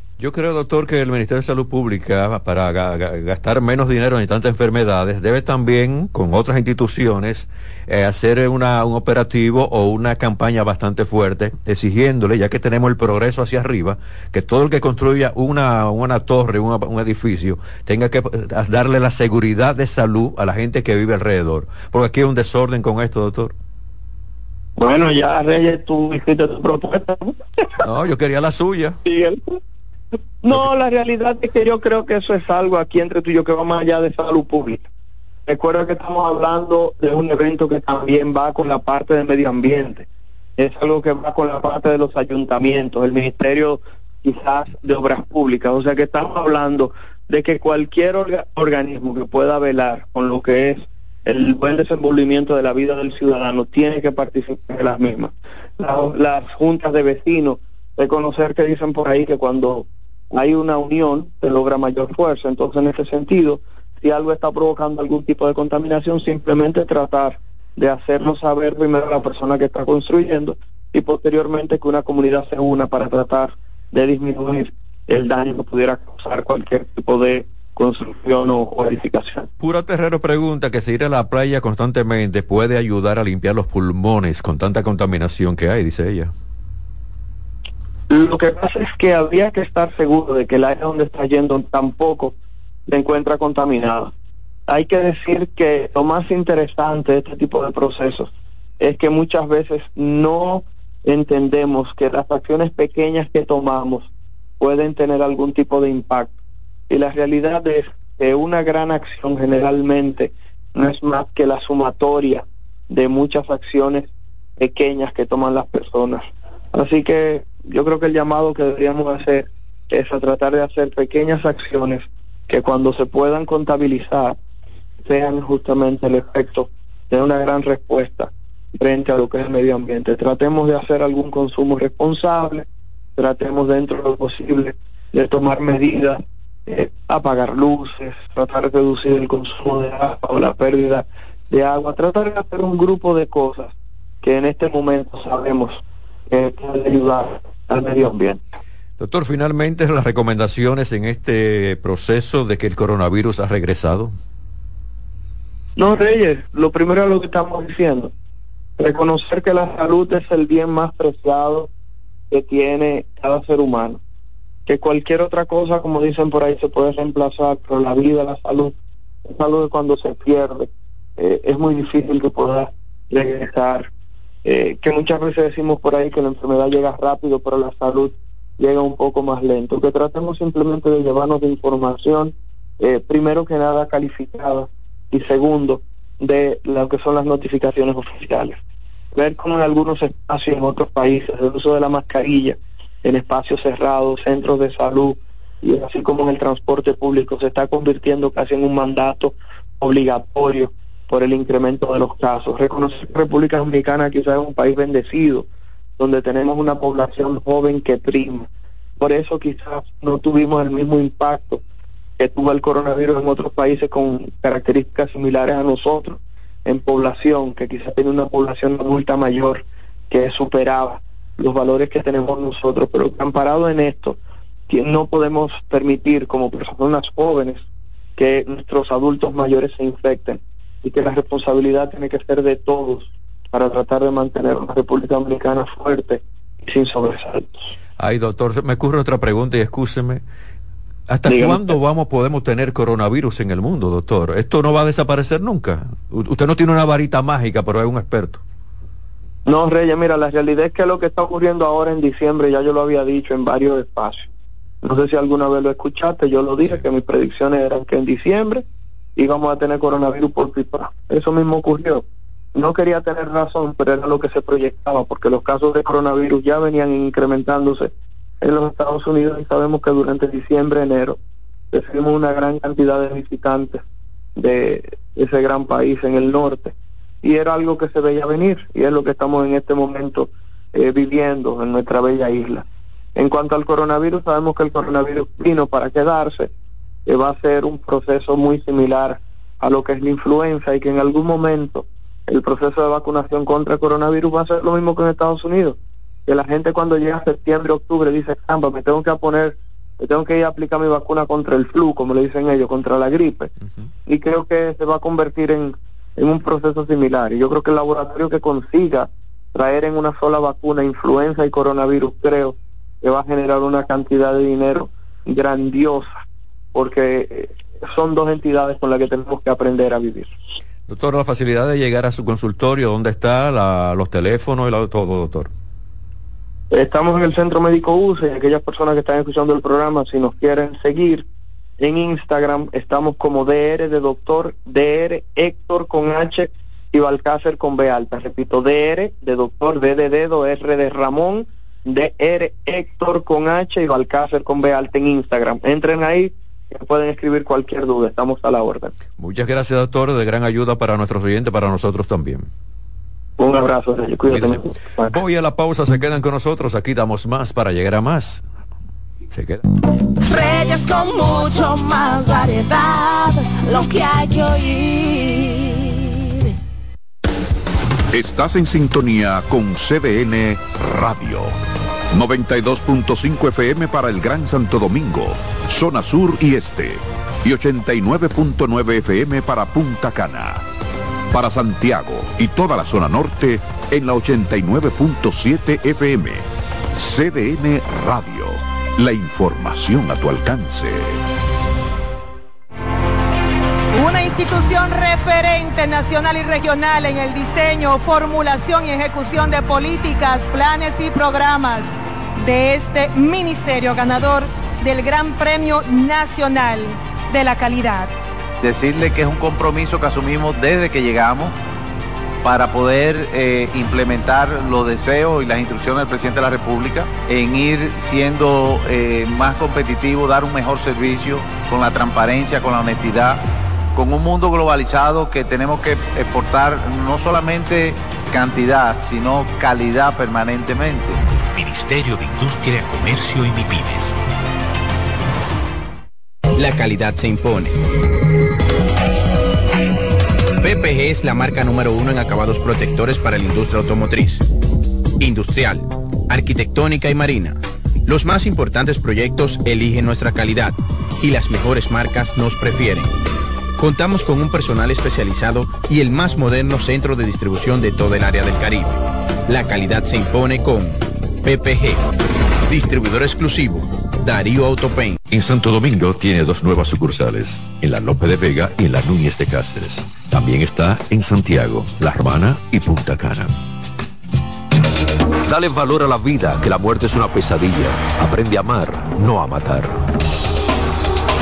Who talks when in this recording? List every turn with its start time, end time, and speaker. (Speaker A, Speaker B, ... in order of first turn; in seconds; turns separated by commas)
Speaker A: 0.2-23.5, Speaker B: 24.8-27.4, Speaker A: 27.8-29.0, Speaker B: 29.0-29.6, Speaker B: 30.4-34.9, Speaker B: 35.5-40.0, Speaker B: 40.6-79.5, Speaker A: 79.6-86.3, Speaker B: 88.1-92.3, Speaker B: 92.9-94.1, Speaker B: 94.7-104.1, Speaker B: 104.6-106.3, Speaker B: 106.9-114.1, Speaker B: 114.6-124.3, Speaker B: 125.0-132.7, Speaker B: 133.2-148.4, Speaker A: 149.0-154.1, Speaker B: 155.8-158.1, Speaker B: 158.8-161.7, Speaker B: 162.3-164.0, Speaker B: 164.7-168.7, Speaker B: 169.2-173.9, Speaker B: 174.4-188.6, Speaker B: 189.1-205.4, Speaker B: 206.0-208.5, Speaker B: 209.0-211.6, Speaker B: 212.2-224.2, Speaker B: 224.7-227.6, Speaker B: 228.2-237.7, Speaker A: 238.0-240.2, Speaker A: 241.1-248.4, Speaker B: 241.3-241.7, Speaker B: 249.4-254.3, Speaker B: 254.8-258.6, Speaker B: 259.1-262.0, Speaker B: 262.5-271.2, Speaker B: 271.7-273.8, Speaker B: 274.4-282.6, Speaker B: 283.1-286.5, Speaker B: 287.1-303.5, Speaker B: 304.1-316.2, Speaker B: 316.7-320.4, Speaker A: 320.9-325.5, Speaker B: 326.7-331.2, Speaker B: 331.8-348.9, Speaker A: 349.2-352.5, Speaker B: 353.4-355.1, Speaker A: 354.3-358.4, Speaker A: 359.3-359.6, Speaker C: 360.2-366.5, Speaker D: 368.1-371.6, Speaker D: 372.1-380.6, Speaker D: 381.3-391.2, Speaker E: 393.9-408.1, Speaker F: 408.6-411.5, Speaker F: 412.4-423.4, Speaker F: 423.9-431.2, Speaker G: 431.5-434.2, Speaker H: 436.5-437.8, Speaker H: 440.6-444.4, Speaker H: 445.2-453.1, Speaker H: 453.8-462.1, Speaker H: 462.7-465.2, Speaker A: 465.3-473.5, Speaker A: 475.4-480.0